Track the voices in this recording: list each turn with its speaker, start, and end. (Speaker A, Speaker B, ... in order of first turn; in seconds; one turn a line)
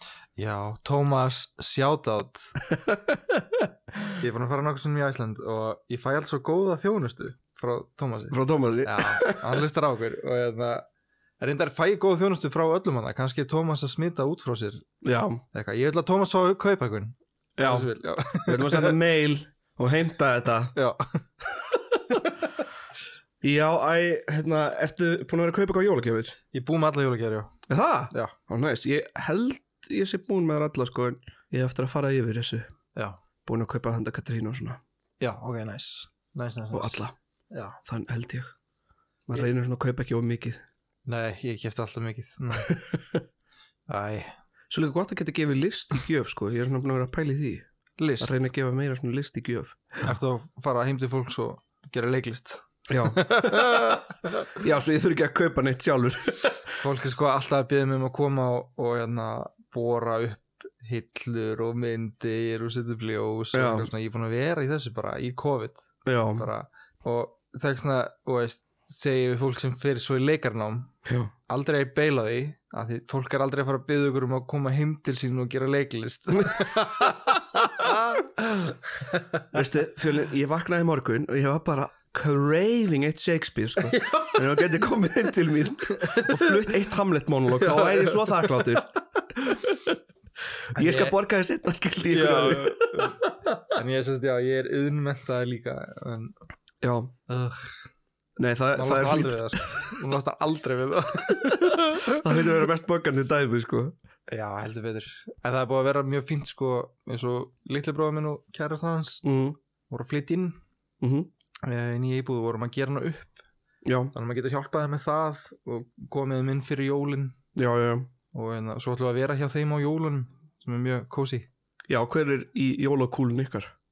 Speaker A: 0.4-2.5
Speaker B: 2.7-3.2
Speaker A: 4.2-10.9
Speaker B: 8.3-9.6
Speaker A: 11.4-14.9
Speaker B: 15.0-15.4
Speaker A: 15.5-19.0
Speaker B: 17.6-20.8
Speaker A: 20.8-21.0
Speaker B: 23.4-26.4
Speaker A: 26.5-27.5
Speaker B: 27.7-32.7
Speaker B: 33.5-34.8
Speaker A: 35.2-37.8
Speaker B: 36.7-37.1
Speaker B: 37.8-38.5
Speaker B: 39.3-40.6
Speaker A: 41.1-42.7
Speaker B: 42.8-43.2
Speaker A: 43.9-44.3
Speaker B: 44.7-47.7
Speaker A: 48.0-48.3
Speaker B: 48.2-50.1
Speaker A: 50.0-52.6
Speaker B: 52.9-54.0
Speaker A: 53.1-54.0
Speaker B: 54.6-56.6
Speaker A: 56.8-70.9
Speaker B: 63.5-63.9
Speaker B: 66.1-66.5
Speaker B: 71.0-71.3
Speaker A: 71.5-78.7
Speaker B: 79.5-88.9
Speaker A: 86.0-86.6
Speaker A: 87.6-88.5
Speaker A: 90.8-91.2
Speaker B: 90.8-93.1
Speaker A: 92.1-96.4
Speaker B: 96.8-97.1
Speaker A: 97.3-97.7
Speaker B: 98.4-100.0
Speaker A: 98.8-102.2
Speaker B: 101.4-104.0
Speaker A: 104.3-109.2
Speaker B: 109.2-109.6
Speaker A: 109.9-110.6
Speaker B: 111.0-111.3
Speaker A: 111.7-113.4
Speaker B: 113.8-114.1
Speaker A: 114.1-117.4
Speaker B: 117.5-118.1
Speaker A: 118.3-121.5
Speaker B: 121.9-123.7